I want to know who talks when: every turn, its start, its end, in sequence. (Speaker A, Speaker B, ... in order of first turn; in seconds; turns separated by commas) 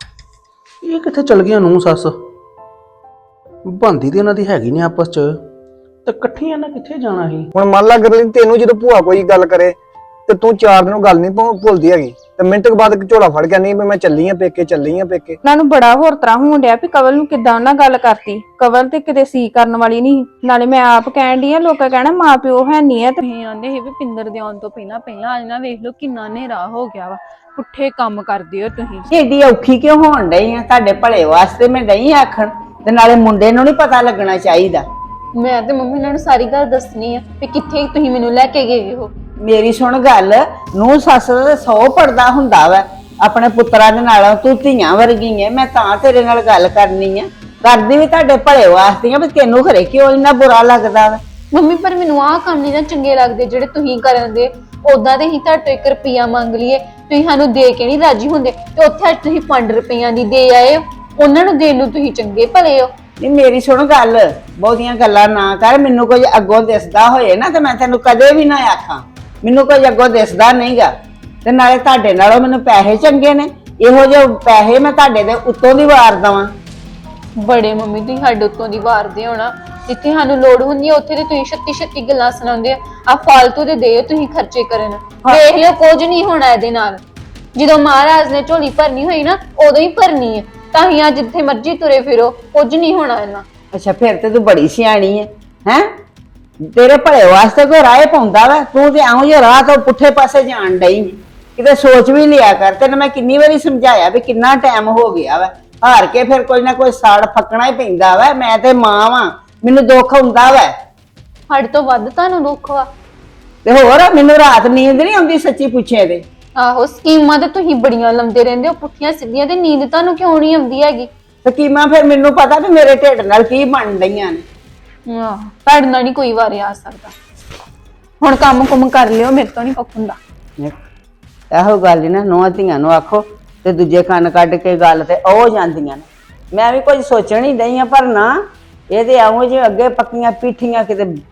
Speaker A: 0.8-2.1, Speaker A: 3.6-5.4, Speaker A: 6.0-7.5, Speaker B: 7.5-15.4, Speaker C: 15.4-23.2, Speaker D: 23.2-29.1, Speaker E: 29.1-34.9, Speaker D: 35.4-39.1, Speaker E: 39.4-51.2, Speaker D: 51.5-62.9, Speaker E: 63.2-70.9, Speaker E: 71.5-76.5, Speaker D: 77.4-87.0, Speaker D: 87.6-93.5, Speaker E: 93.7-95.9, Speaker E: 96.6-110.7, Speaker D: 111.5-112.9, Speaker E: 113.7-116.2, Speaker D: 116.6-121.1, Speaker E: 121.4-124.5, Speaker D: 125.1-127.2, Speaker D: 128.2-130.2, Speaker E: 131.5-141.1